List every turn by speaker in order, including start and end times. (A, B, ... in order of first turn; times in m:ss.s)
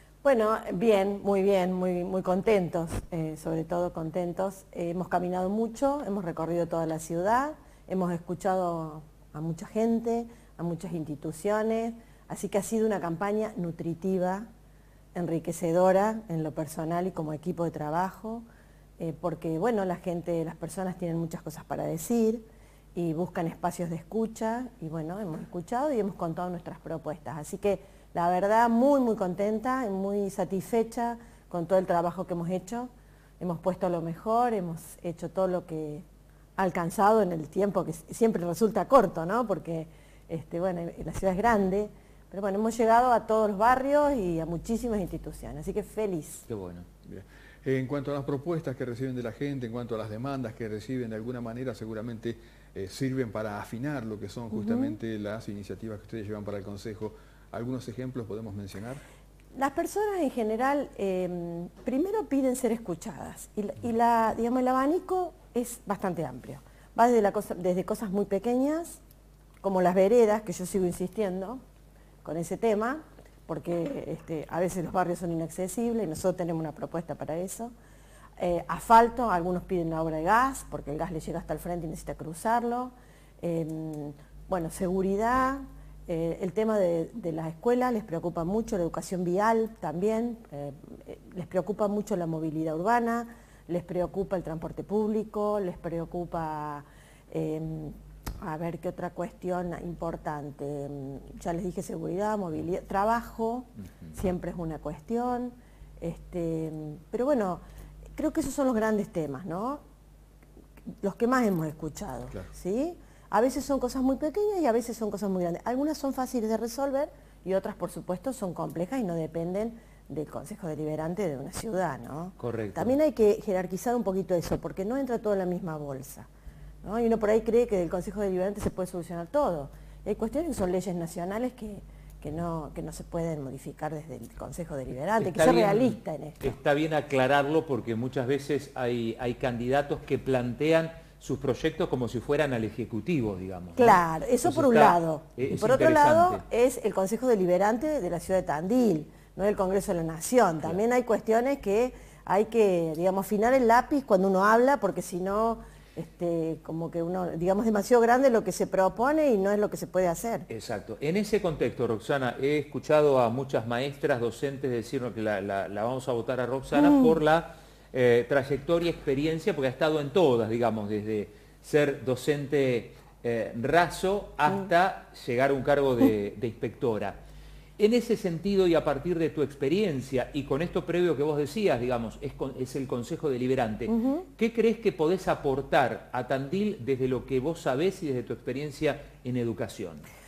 0:00.2-0:14.5 A
0:15.1-0:18.4 A
0:19.0-0:22.4 A
0:22.9-0:36.0 A
0:36.6-0:46.5 A
0:46.5-0:46.8 B
0:47.0-0:59.0 C
0:54.5-0:55.0 A
0:59.5-1:09.0 A
1:09.6-1:11.6 A
1:12.2-1:17.7 A
1:18.4-1:47.6 A
1:48.2-1:49.8 A
1:51.0-2:06.3 A
2:02.4-2:02.9 B
2:06.8-2:16.5 A
2:15.2-2:26.4 B
2:23.8-2:40.5 A
2:40.5-2:57.2 B
2:46.7-2:47.2 A
2:57.8-3:10.0 B
3:03.9-3:04.2 A